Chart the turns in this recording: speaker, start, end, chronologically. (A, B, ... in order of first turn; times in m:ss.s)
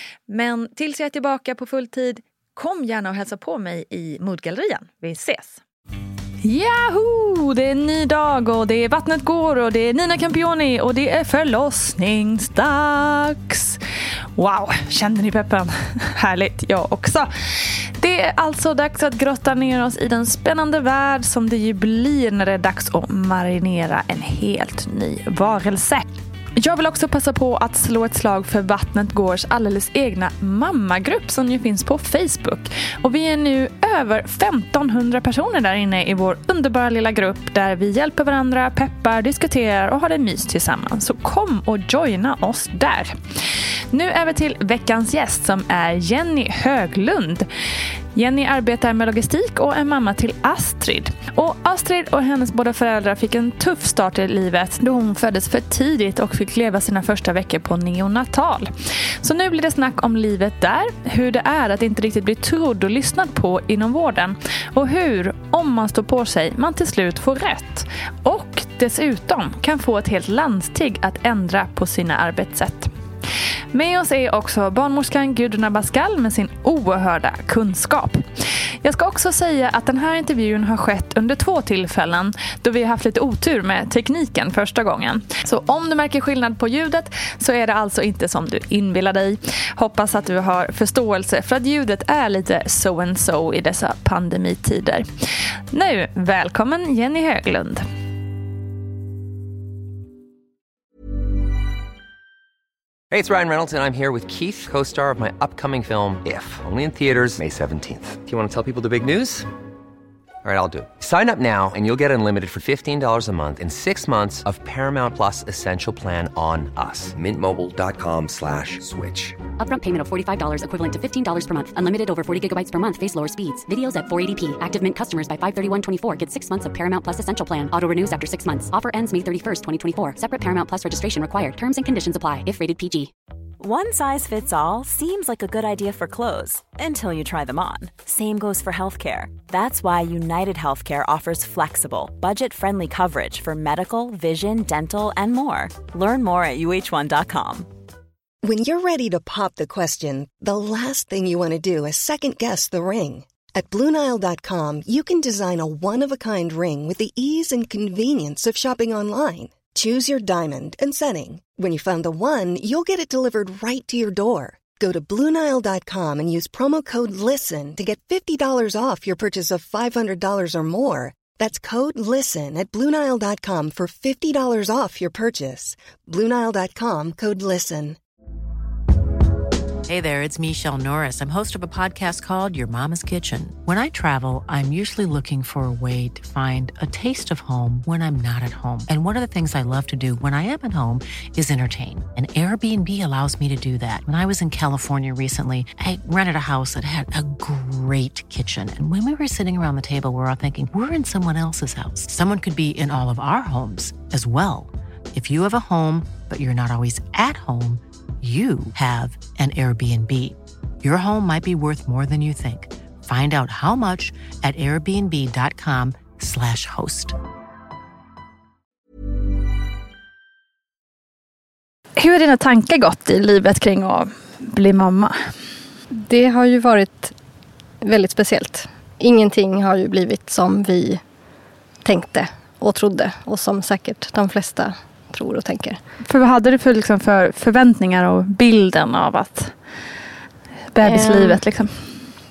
0:00.3-0:05.6 A
0:06.4-0:13.8 A
0:14.4-0:17.3 A
0:18.0-0:43.2 A
0:43.9-0:47.5 A
0:48.1-0:58.7 A
0:59.2-1:12.9 A
1:13.7-1:18.3 A
1:18.8-1:35.1 A
1:35.7-1:37.9 A
1:43.1-1:49.5 B
1:50.4-1:59.4 B
1:59.6-2:13.1 C
2:13.6-2:27.7 D
2:28.4-2:58.0 E
2:59.9-3:37.2 F
3:42.0-3:45.3 A
3:46.0-3:47.2 G
3:47.8-3:51.1 G
3:51.8-3:55.8 G
3:56.0-3:59.6 A
4:00.7-4:01.7 A
4:00.8-4:01.4 G